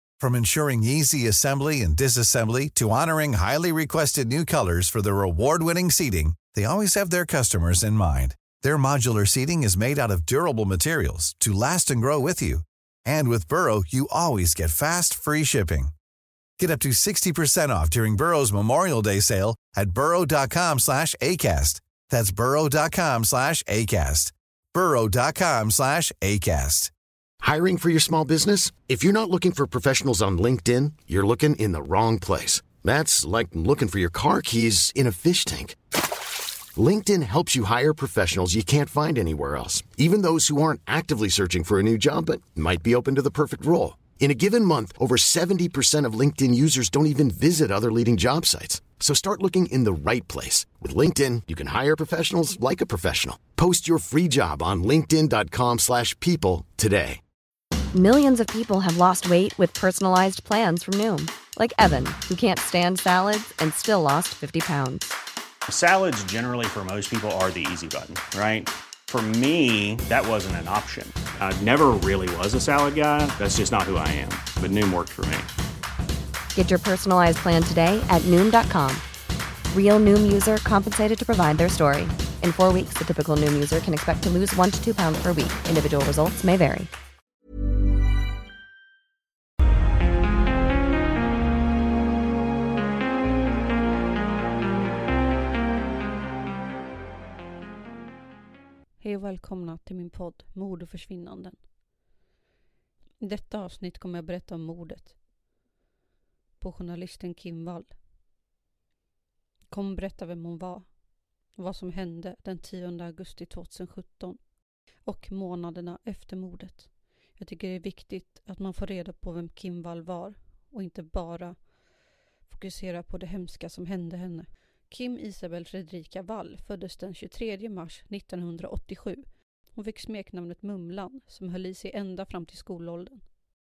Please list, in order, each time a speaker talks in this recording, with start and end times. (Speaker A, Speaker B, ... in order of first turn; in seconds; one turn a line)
Speaker A: 0.2-15.9
Speaker A: 16.6-26.9
Speaker B: 27.4-35.8
Speaker B: 36.8-57.2
Speaker C: 57.9-65.1
Speaker D: 65.7-75.5
Speaker C: 76.5-79.0
Speaker C: 79.7-86.9
Speaker E: 99.0-101.6
Speaker E: 103.2-105.2
Speaker E: 106.6-107.9
Speaker E: 109.7-110.9
Speaker E: 111.6-114.4
Speaker E: 115.0-121.5
Speaker E: 122.5-133.2